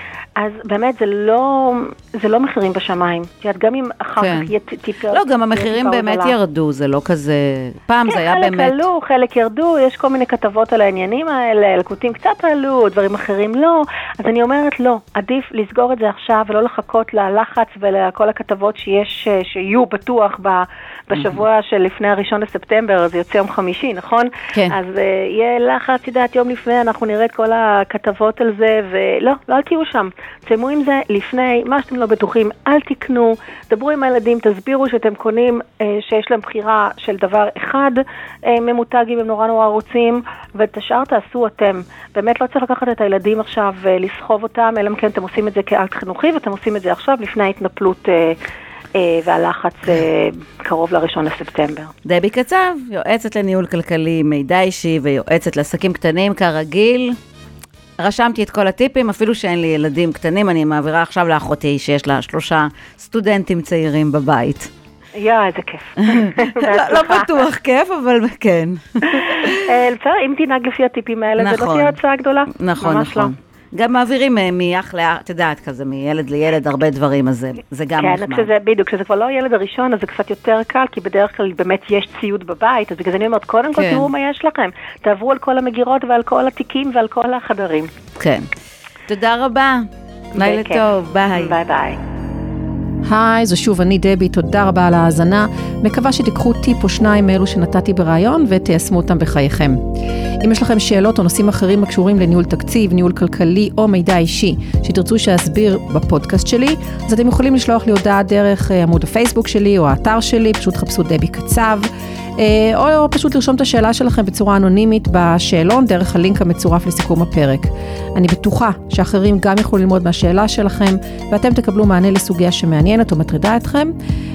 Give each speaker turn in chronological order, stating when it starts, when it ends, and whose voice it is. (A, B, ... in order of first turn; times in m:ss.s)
0:00.4-0:06.4 A
0:04.2-0:04.5 B
0:05.1-0:08.9 B
0:08.1-0:48.4 A
0:21.1-0:21.4 B
0:49.0-0:51.9 A
0:52.0-0:57.2 B
0:58.0-1:04.7 B
1:05.2-1:07.4 A
1:06.1-1:09.7 B
1:09.1-1:13.3 A
1:11.4-1:12.0 B
1:12.5-1:18.5 B
1:18.0-1:27.9 A
1:23.7-1:24.1 B
1:28.2-1:28.5 B
1:29.1-1:31.6 B
1:30.4-1:32.0 A
1:33.1-1:39.8 C
1:40.4-2:03.9 C